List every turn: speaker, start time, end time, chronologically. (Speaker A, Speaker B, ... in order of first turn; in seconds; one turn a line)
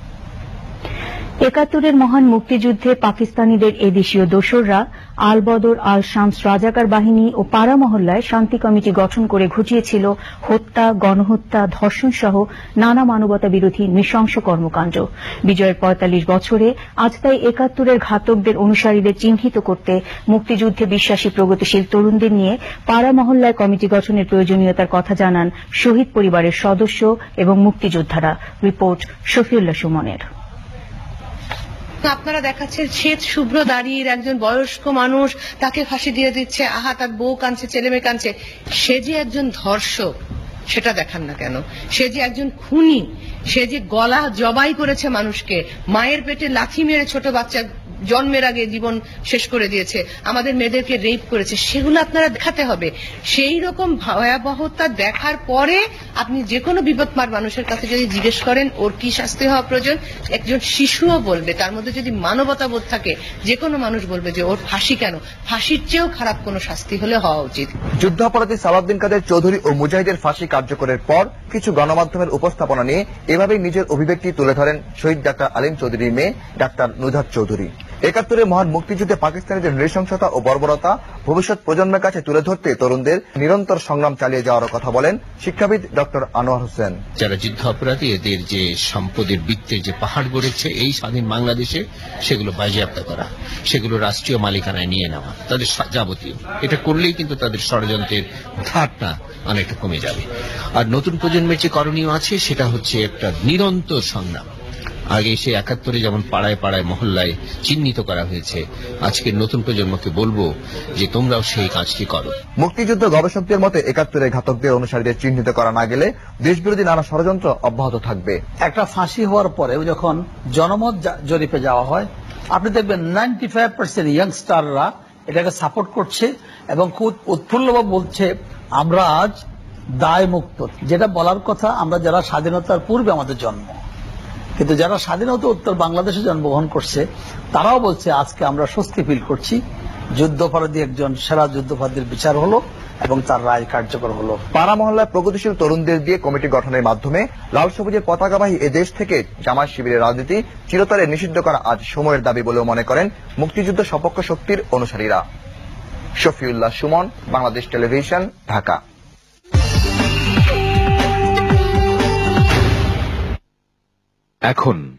Speaker A: 1.4-30.2
Speaker B: 32.0-40.1
Speaker B: 40.7-67.7
Speaker C: 68.0-87.0
Speaker D: 87.2-100.2
Speaker D: 100.8-104.5
Speaker D: 105.1-112.3
Speaker C: 112.6-118.4
Speaker E: 118.6-129.4
Speaker E: 130.0-133.8
Speaker E: 134.6-139.6
Speaker E: 140.1-144.4
Speaker C: 144.5-155.2
Speaker C: 156.2-158.8